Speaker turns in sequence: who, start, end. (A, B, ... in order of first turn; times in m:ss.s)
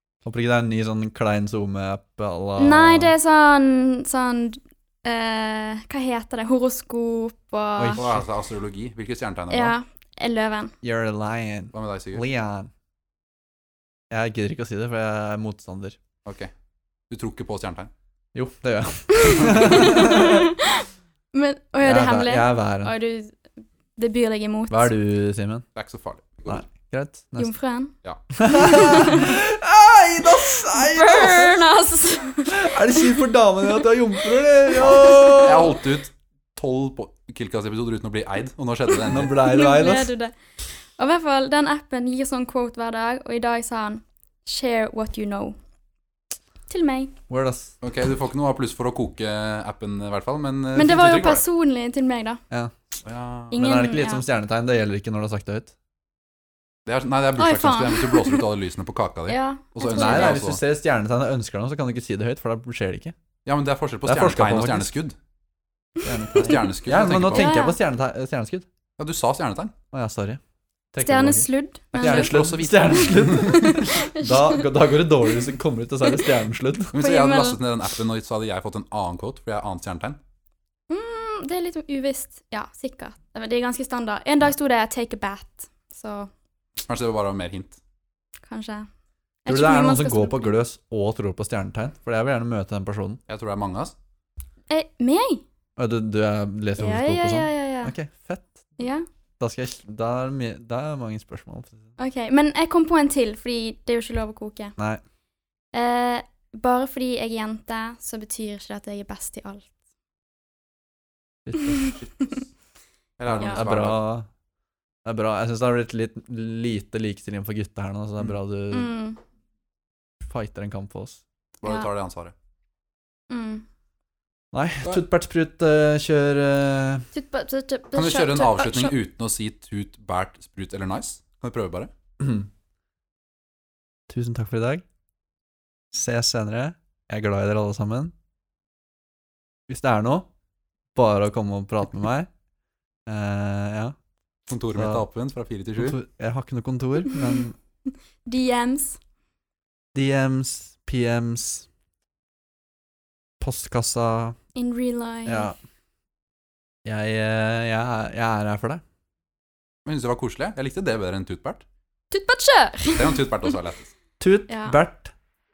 0:00.2-0:03.1 A
0:02.6-0:08.0 B
0:07.8-0:08.2 A
0:08.0-0:09.8 C
0:09.5-0:10.8 B
0:10.8-0:12.7 A
0:11.7-0:12.2 C
0:14.1-0:16.0 A
0:16.2-0:16.5 C
0:17.1-0:17.9 C
0:18.4-0:20.5 A
0:19.1-0:23.4 B
0:21.8-0:23.0 A
0:24.0-0:24.9 B
0:24.7-0:25.6 A
0:25.8-0:26.6 C
0:26.5-0:27.5 A
0:27.4-0:27.9 B
0:28.3-0:31.6 A
0:28.4-0:29.3 B
0:30.6-0:33.2 B
0:32.5-0:35.8 A
0:34.7-0:35.6 B
0:34.8-0:39.4 C
0:39.0-0:40.3 B
0:39.1-0:40.1 A
0:41.0-0:45.6 B
0:46.7-0:47.1 B
0:47.3-0:47.7 A
0:47.8-0:51.4 C
0:50.8-0:52.4 B
0:53.0-0:53.6 C
0:53.5-0:54.2 B
0:53.6-0:55.7 A
0:56.9-1:00.6 C
0:57.4-0:58.5 B
0:59.3-1:00.4 B
0:59.9-1:03.2 A
1:03.4-1:05.2 C
1:04.0-1:04.9 A
1:06.0-1:06.7 B
1:06.0-1:08.7 A
1:06.4-1:07.6 C
1:07.3-1:07.8 B
1:09.0-1:09.7 C
1:09.9-1:10.4 A
1:10.9-1:16.9 A
1:11.0-1:14.7 B
1:11.9-1:13.8 C
1:16.9-1:20.2 C
1:17.0-1:17.6 B
1:20.9-1:26.3 B
1:26.9-1:27.8 C
1:28.5-1:28.9 B
1:29.4-1:30.5 B
1:29.5-1:33.2 A
1:33.3-1:34.0 C
1:34.7-1:35.4 B
1:35.8-1:38.7 A
1:36.8-1:37.9 B
1:38.8-1:39.0 B
1:39.4-1:41.8 A
1:42.0-1:44.8 B
1:45.7-1:49.7 B
1:51.5-1:52.0 A
1:51.6-1:52.3 B
1:53.2-1:54.0 C
1:53.3-1:54.3 A
1:55.0-1:58.9 A
1:58.7-1:59.2 B
2:00.2-2:01.2 A
2:01.6-2:02.3 C
2:03.3-2:03.6 B
2:04.5-2:07.1 A
2:07.1-2:09.0 B
2:07.9-2:11.9 C
2:12.2-2:12.5 A
2:14.1-2:14.8 A
2:15.9-2:18.1 A
2:19.7-2:20.3 A
2:21.0-2:22.3 A
2:23.1-2:24.0 A
2:24.5-2:26.0 C
2:24.8-2:25.0 A
2:25.8-2:27.6 A
2:27.1-2:27.4 B
2:28.3-2:29.0 B
2:29.9-2:31.7 A
2:33.4-2:34.4 A
2:34.6-2:35.5 B
2:35.3-2:35.6 A
2:36.8-2:38.8 A
2:39.8-2:41.6 C
2:42.1-2:43.5 B
2:42.9-2:43.9 C
2:44.2-2:45.1 A
2:44.5-2:44.8 B